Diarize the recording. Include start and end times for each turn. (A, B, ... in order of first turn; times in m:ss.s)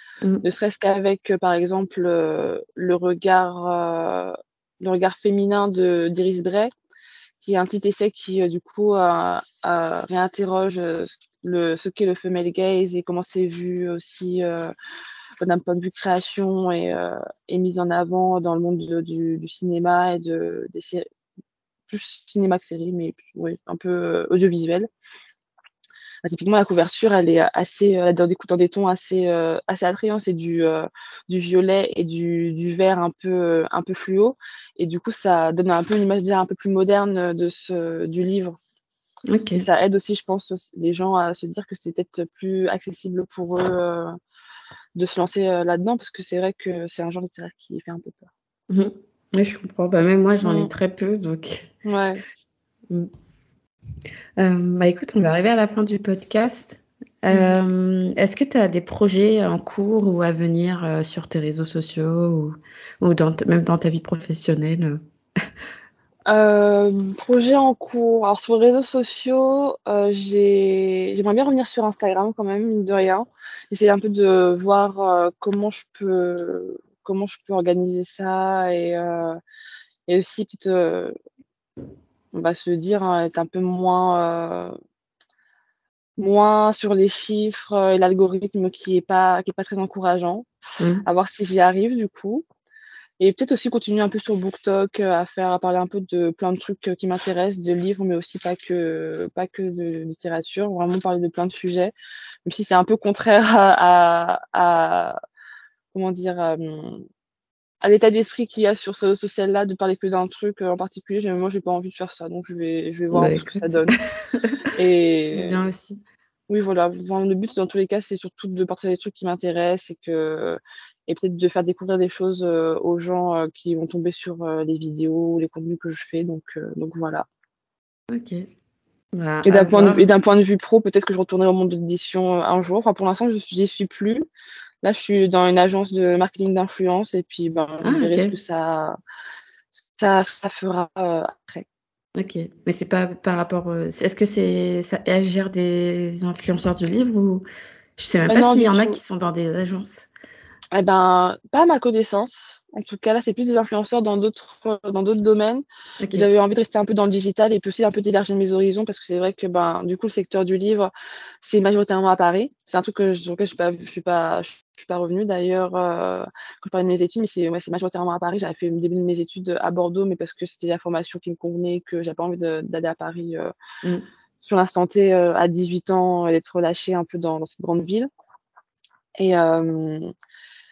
0:00.4-0:06.7 A
0:07.4-0:14.7 A
0:15.4-0:21.1 A
0:21.9-0:24.9 A
0:26.2-0:38.5 A
0:39.3-0:39.6 B
0:39.5-0:44.1 A
0:44.9-0:48.3 A
0:48.7-0:51.7 B
0:50.4-0:50.7 A
0:51.8-0:52.2 A
0:54.4-1:05.0 B
0:57.3-0:57.6 A
1:06.3-1:19.4 A
1:20.1-1:21.1 A
1:22.3-1:24.7 A
1:26.2-1:30.5 A
1:30.8-1:31.0 B
1:31.0-1:32.4 A
1:33.2-1:41.9 A
1:42.4-1:45.2 A
1:45.9-1:47.0 A
1:47.8-1:53.9 A
1:53.1-1:54.7 B
1:54.8-1:55.6 A
1:55.3-1:56.0 B
1:56.5-2:07.2 A
2:08.1-2:08.4 B
2:09.1-2:10.1 B
2:09.4-2:14.2 A
2:14.8-2:19.0 A
2:17.8-2:18.3 B
2:20.0-2:21.6 A
2:22.2-2:27.4 B
2:28.0-2:30.1 B
2:28.3-2:29.0 A
2:30.7-2:40.9 A
2:36.0-2:36.3 B
2:41.4-2:53.5 A
2:54.4-2:58.1 A
2:59.2-3:00.1 A